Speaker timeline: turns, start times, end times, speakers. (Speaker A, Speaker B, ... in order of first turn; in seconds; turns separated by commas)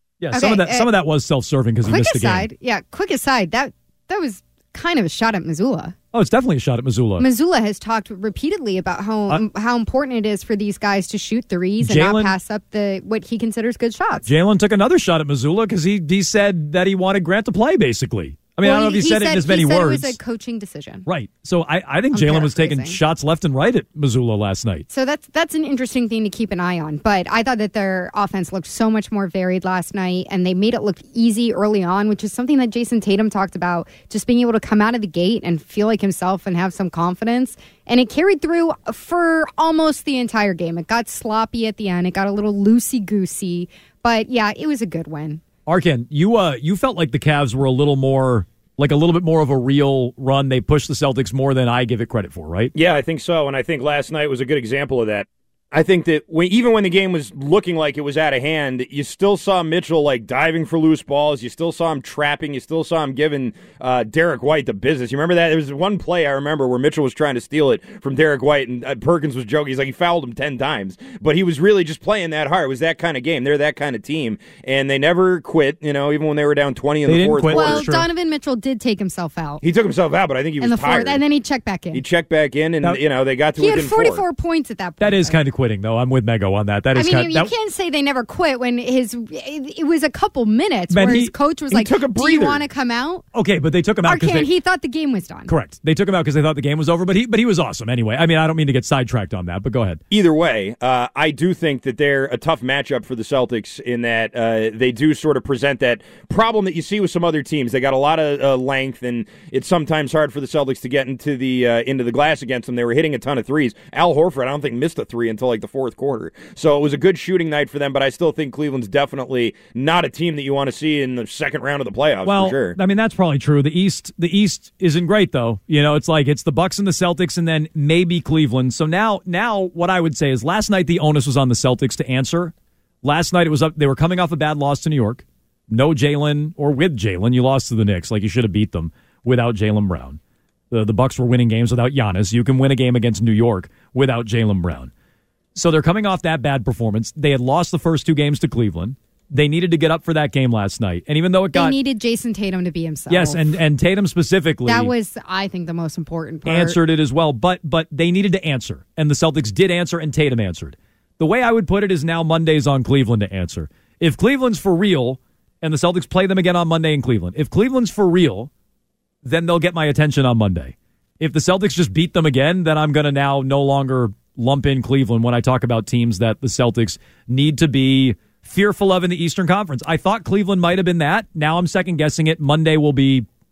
Speaker A: 0.2-2.5, Speaker B: 0.3-0.9, Speaker B: 1.9-6.0, Speaker A: 6.1-7.3, Speaker B: 7.2-14.3, Speaker A: 11.8-12.3, Speaker A: 14.2-20.2, Speaker B: 18.6-21.1, Speaker A: 21.1-24.9, Speaker B: 22.1-23.0, Speaker B: 24.9-45.4, Speaker A: 45.7-52.7, Speaker C: 52.8-77.9, Speaker A: 77.1-78.1, Speaker B: 77.5-79.6, Speaker C: 79.6-81.2, Speaker B: 80.6-82.0, Speaker C: 81.9-84.2, Speaker B: 83.6-85.4, Speaker A: 85.0-87.5, Speaker B: 87.0-93.2, Speaker A: 90.9-91.3, Speaker C: 91.7-92.6, Speaker A: 93.3-94.5, Speaker B: 94.1-95.5, Speaker A: 95.5-100.0, Speaker C: 100.1-122.8, Speaker A: 122.2-132.5, Speaker A: 133.0-140.2, Speaker A: 140.7-144.9, Speaker A: 145.6-151.8, Speaker B: 151.5-153.4, Speaker A: 153.1-154.9, Speaker B: 154.7-156.8, Speaker A: 156.4-168.5, Speaker A: 169.2-183.3